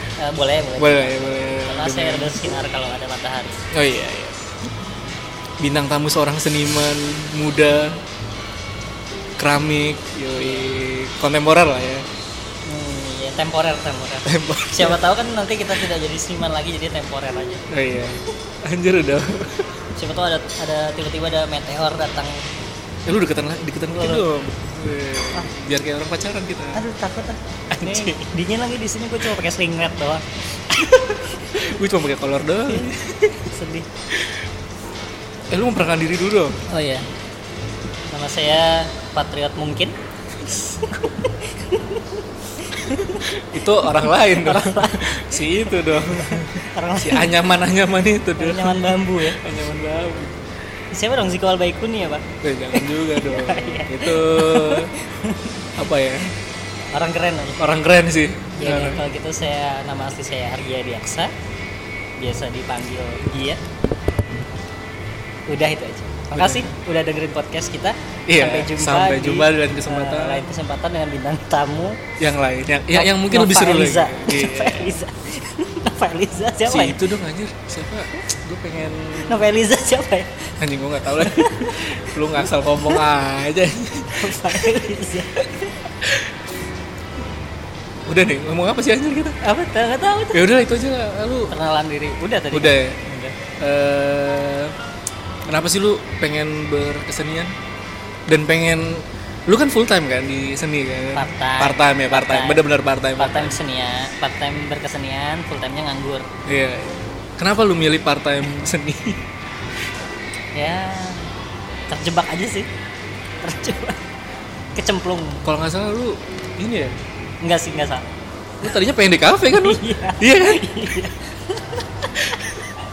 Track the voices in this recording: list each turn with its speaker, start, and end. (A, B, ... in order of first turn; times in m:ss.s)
0:00.2-0:03.6 A
0:00.8-0:02.4 B
0:03.7-0:04.4 B
0:05.6-0:08.0 B
0:09.4-0:12.1 B
0:12.7-0:17.7 A
0:14.3-0:15.0 B
0:17.7-0:19.8 B
0:20.0-0:22.5 A
0:23.1-0:26.8 B
0:23.9-0:24.2 A
0:26.7-0:31.6 A
0:27.7-0:28.2 B
0:31.1-0:33.5 B
0:33.5-0:33.9 A
0:34.1-0:34.5 B
0:35.5-0:36.6 B
0:36.7-0:37.1 A
0:38.1-0:40.0 A
0:40.5-0:41.0 B
0:40.5-0:43.3 A
0:42.9-0:50.4 B
0:43.8-0:47.4 A
0:48.4-0:49.4 A
0:50.9-0:55.7 A
0:52.4-0:54.9 B
0:55.8-0:56.3 B
0:56.9-0:57.6 A
0:57.6-0:59.1 B
0:58.6-1:01.3 A
1:02.2-1:03.6 A
1:05.5-1:12.0 A
1:06.3-1:06.7 B
1:08.3-1:10.5 B
1:12.2-1:15.0 B
1:12.9-1:17.0 A
1:16.6-1:19.5 B
1:19.2-1:20.6 A
1:20.6-1:24.8 B
1:21.1-1:22.2 A
1:24.1-1:25.9 A
1:26.0-1:26.4 B
1:28.1-1:29.4 B
1:29.4-1:30.5 A
1:30.3-1:31.6 B
1:31.5-1:33.4 A
1:32.5-1:33.0 B
1:33.6-1:34.8 B
1:35.5-1:37.5 B
1:38.3-1:43.6 B
1:41.2-1:42.6 A
1:43.2-1:46.3 A
1:46.5-1:49.3 B
1:50.6-1:51.3 A
1:51.9-1:52.7 A
1:53.4-1:54.0 A
1:54.8-1:55.4 A
1:55.4-1:57.0 B
1:57.4-1:58.1 A
1:58.6-2:01.1 B
1:59.5-2:02.6 A